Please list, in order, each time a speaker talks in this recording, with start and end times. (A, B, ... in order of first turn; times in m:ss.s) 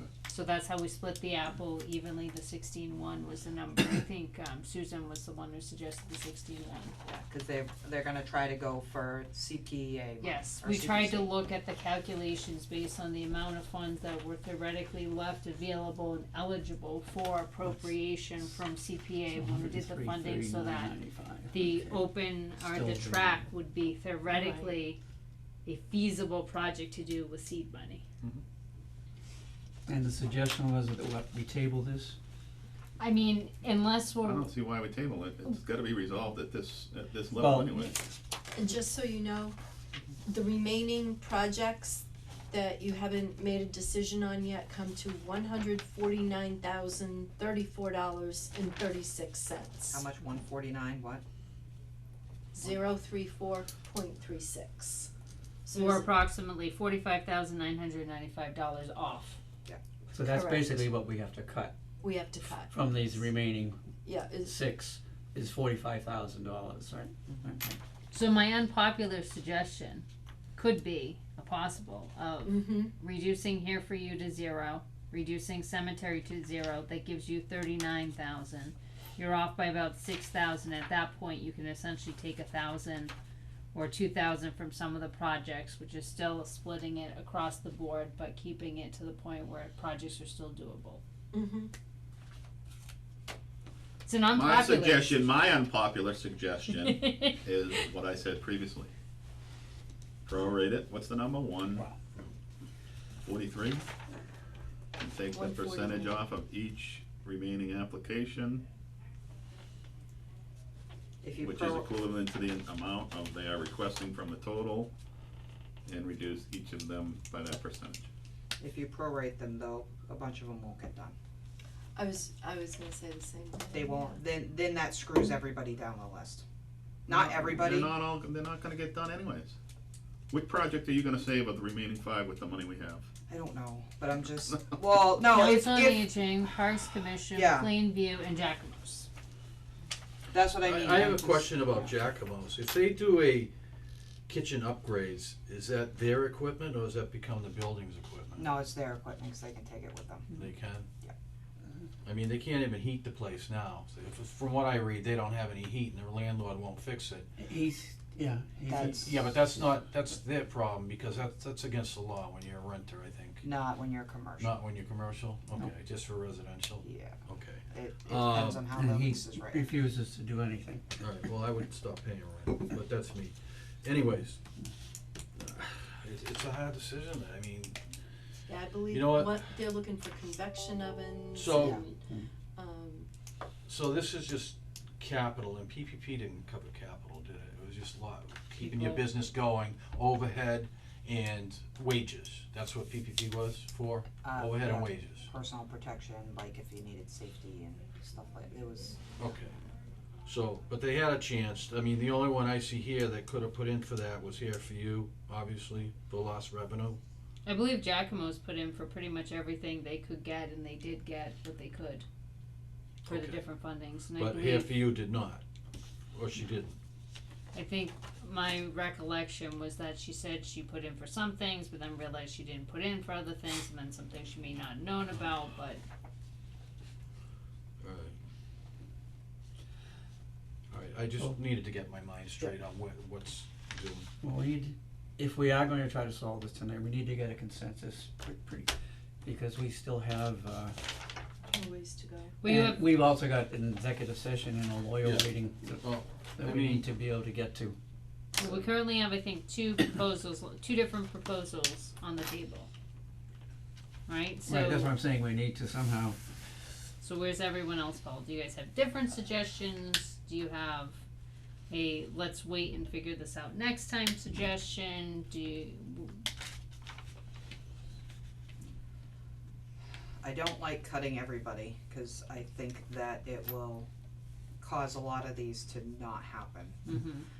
0:00.3-0:06.9 A
0:07.0-0:11.3 B
0:10.2-0:20.9 A
0:19.4-0:22.0 C
0:21.5-0:25.0 A
0:22.7-0:23.4 C
0:24.3-0:24.7 D
0:25.6-0:28.0 A
0:29.9-0:32.2 C
0:33.0-0:34.5 A
0:34.2-0:38.0 E
0:37.3-0:37.8 C
0:38.5-0:39.6 D
0:40.2-0:50.1 D
0:49.9-0:51.2 B
0:52.5-0:55.1 D
0:55.6-0:56.1 D
0:55.7-0:59.4 A
1:00.1-1:01.7 C
1:00.2-1:00.8 D
1:02.0-1:02.7 D
1:02.7-1:03.8 C
1:04.0-1:04.6 D
1:04.4-1:07.8 C
1:08.1-1:23.1 A
1:12.4-1:12.9 D
1:23.7-1:31.0 A
1:31.3-1:31.7 D
1:34.0-1:35.3 A
1:34.3-1:38.9 E
1:36.9-1:37.3 A
1:40.2-1:41.9 E
1:43.2-1:43.8 E
1:45.0-1:48.6 E
1:45.3-1:46.2 D
1:51.2-1:51.9 B
1:51.4-1:54.9 E
1:55.8-1:58.1 E
1:58.6-2:01.1 B
2:01.9-2:04.2 D
2:03.7-2:06.4 B
2:07.1-2:08.0 B
2:07.1-2:09.6 E
2:10.3-2:13.1 E
2:13.3-2:16.1 B
2:15.3-2:19.1 A
2:17.3-2:17.7 B
2:20.3-2:21.9 B
2:20.6-2:23.5 F
2:24.3-2:28.4 F
2:28.4-2:30.4 B
2:30.4-2:30.9 F
2:32.0-2:37.3 F
2:37.4-2:39.9 C
2:38.7-2:39.3 B
2:39.2-2:43.4 F
2:43.4-2:44.6 B
2:44.4-2:48.5 F
2:45.5-2:45.9 C
2:46.8-2:49.8 B
2:48.4-2:50.8 C
2:51.0-2:54.4 F
2:55.3-2:57.8 F
2:58.5-3:02.0 D
2:58.9-2:59.3 F
3:01.3-3:01.8 F
3:02.6-3:03.1 D
3:03.6-3:15.2 F
3:14.2-3:19.0 B
3:19.2-3:19.6 F
3:20.2-3:27.0 F
3:27.4-3:32.0 A
3:33.1-3:33.4 F
3:33.1-3:34.8 A
3:34.1-3:35.4 F
3:36.1-3:36.8 F
3:37.5-3:45.8 A
3:47.8-3:48.1 F
3:50.7-3:54.1 F
3:51.2-3:52.0 C
3:54.2-3:58.7 C
3:59.2-4:00.8 C
4:01.5-4:02.4 D
4:02.4-4:02.9 A
4:02.4-4:07.8 C
4:05.0-4:06.9 F
4:08.4-4:12.7 A
4:14.1-4:14.9 A
4:14.5-4:16.2 C
4:17.0-4:21.0 A
4:21.7-4:26.2 A
4:30.2-4:33.9 B
4:34.6-4:36.8 B
4:36.8-4:37.3 A